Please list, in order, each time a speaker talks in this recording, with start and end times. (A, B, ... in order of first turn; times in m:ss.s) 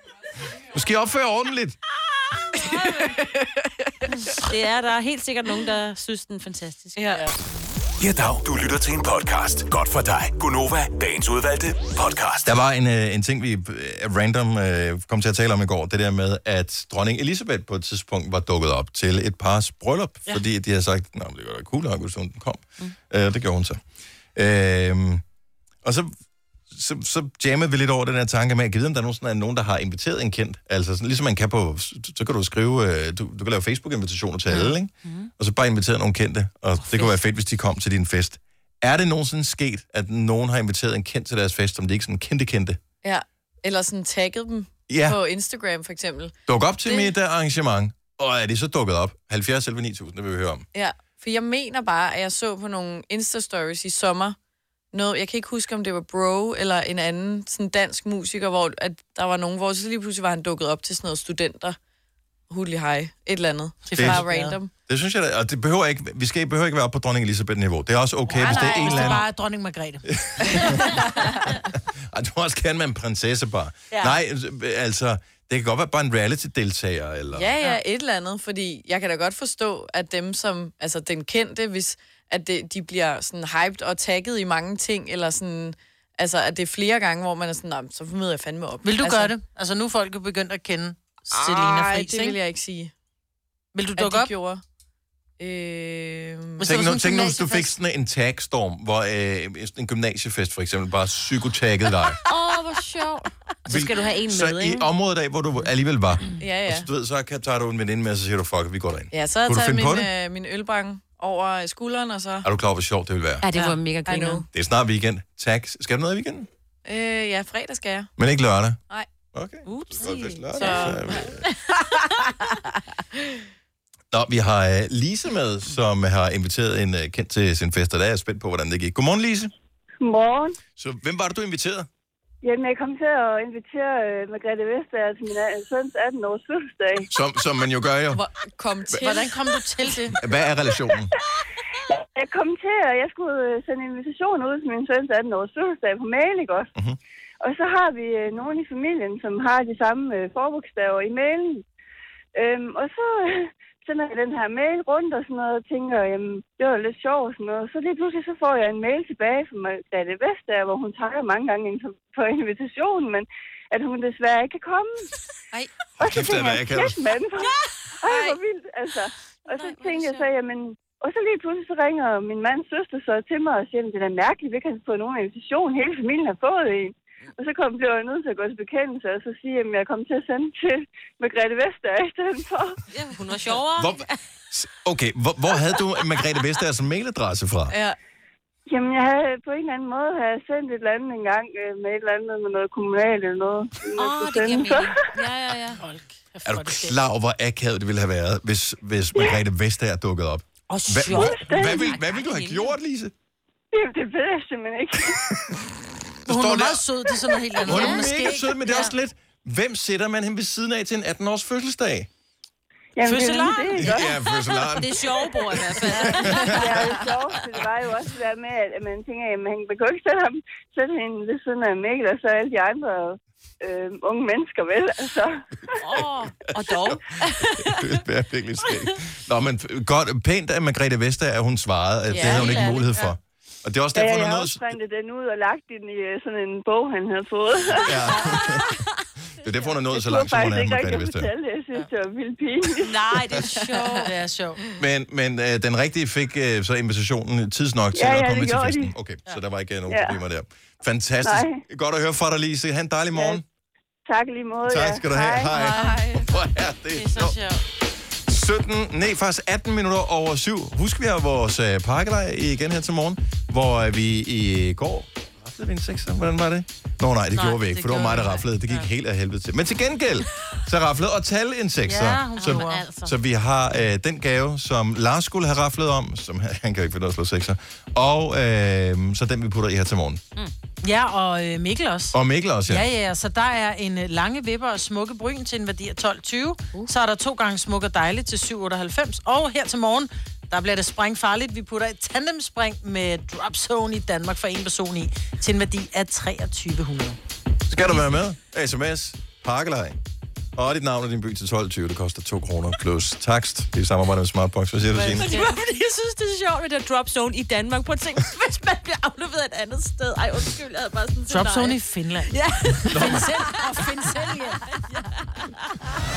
0:00.6-0:01.8 A
0:02.5-0:03.9 B
0:02.6-0:03.1 C
0:04.2-0:07.2 C
0:07.0-0:07.3 B
0:08.0-0:12.5 D
0:12.4-0:23.8 A
0:24.3-0:25.2 A
0:25.8-0:26.1 A
0:26.7-0:42.8 A
0:34.5-0:35.3 C
0:36.8-0:37.2 C
0:43.0-0:47.1 B
0:44.9-0:45.2 A
0:46.5-0:50.6 A
0:50.7-0:54.4 B
0:54.9-1:01.8 B
1:02.5-1:04.7 B
1:03.8-1:04.6 E
1:04.0-1:04.2 A
1:04.9-1:09.2 A
1:08.3-1:10.7 E
1:08.5-1:09.0 B
1:08.9-1:09.2 C
1:10.1-1:11.5 A
1:10.5-1:11.3 B
1:12.1-1:17.5 A
1:17.3-1:29.3 B
1:28.8-1:32.4 E
1:31.3-1:32.9 B
1:33.7-1:34.3 E
1:34.0-1:34.6 B
1:35.4-1:36.7 B
1:36.6-1:37.7 E
1:36.6-1:42.2 A
1:42.2-1:44.9 C
1:43.7-1:50.1 A
1:46.4-1:46.9 B
1:49.1-1:52.4 B
1:52.4-1:53.5 A
1:53.4-1:54.4 C
1:53.6-1:54.4 B
1:54.5-1:56.5 A
1:56.8-1:58.1 B
1:58.2-1:58.8 A
1:59.3-2:01.4 A
1:59.6-2:01.4 C
2:00.5-2:01.3 B
2:04.1-2:09.5 A
2:10.0-2:10.6 F
2:10.8-2:11.9 A
2:12.4-2:17.1 F
2:17.1-2:18.2 A
2:18.1-2:19.3 B
2:19.0-2:20.2 E
2:20.1-2:21.1 A
2:21.9-2:26.7 F
2:27.4-2:31.6 F
2:32.3-2:45.0 F
2:46.0-2:47.0 A
2:46.0-3:02.8 F
2:48.1-2:48.3 C
2:49.5-2:50.3 C
3:02.9-3:04.2 C
3:03.7-3:07.7 A
3:07.7-3:08.0 B
3:08.7-3:15.1 F
3:14.0-3:15.8 C
3:15.8-3:17.0 E
3:16.4-3:23.1 A
3:20.7-3:21.6 E
3:21.1-3:22.0 F
3:21.6-3:22.7 C
3:23.7-3:25.2 F
3:25.0-3:25.6 A
3:26.2-3:26.8 A
3:26.2-3:28.9 E
3:27.6-3:28.9 C
3:27.6-3:32.1 A
3:33.0-3:34.2 F
3:33.0-3:33.9 E
3:33.8-3:35.0 A
3:34.6-3:37.4 C
3:35.7-3:36.8 A
3:36.4-3:45.8 F
3:45.8-3:47.9 C
3:47.6-3:54.7 A
3:48.7-3:48.9 C
3:52.1-3:52.7 B
3:52.1-3:53.1 C
3:53.9-3:58.3 F
3:57.7-3:58.8 A
3:58.0-3:58.8 C
3:59.4-4:01.3 A
3:59.4-3:59.8 C
3:59.8-4:03.1 F
4:02.8-4:04.1 C
4:03.5-4:04.6 E
4:04.8-4:13.4 A
4:07.9-4:08.9 F
4:09.9-4:10.2 F
4:11.2-4:11.6 F
4:13.1-4:13.4 F
4:14.1-4:15.5 F
4:14.6-4:17.4 A
4:15.5-4:15.9 C
4:15.6-4:16.4 B
4:16.9-4:17.6 E
4:18.3-4:40.2 A
4:27.3-4:28.8 E
4:27.5-4:28.0 C
4:31.9-4:32.9 E
4:32.4-4:33.2 C
4:40.8-4:42.2 E
4:42.1-4:42.9 A
4:42.7-4:57.2 E
4:57.7-5:00.0 A
5:00.6-5:05.3 A
5:04.9-5:15.5 C
5:05.2-5:05.5 B
5:11.3-5:12.3 E
5:12.9-5:14.6 E
5:12.9-5:13.3 A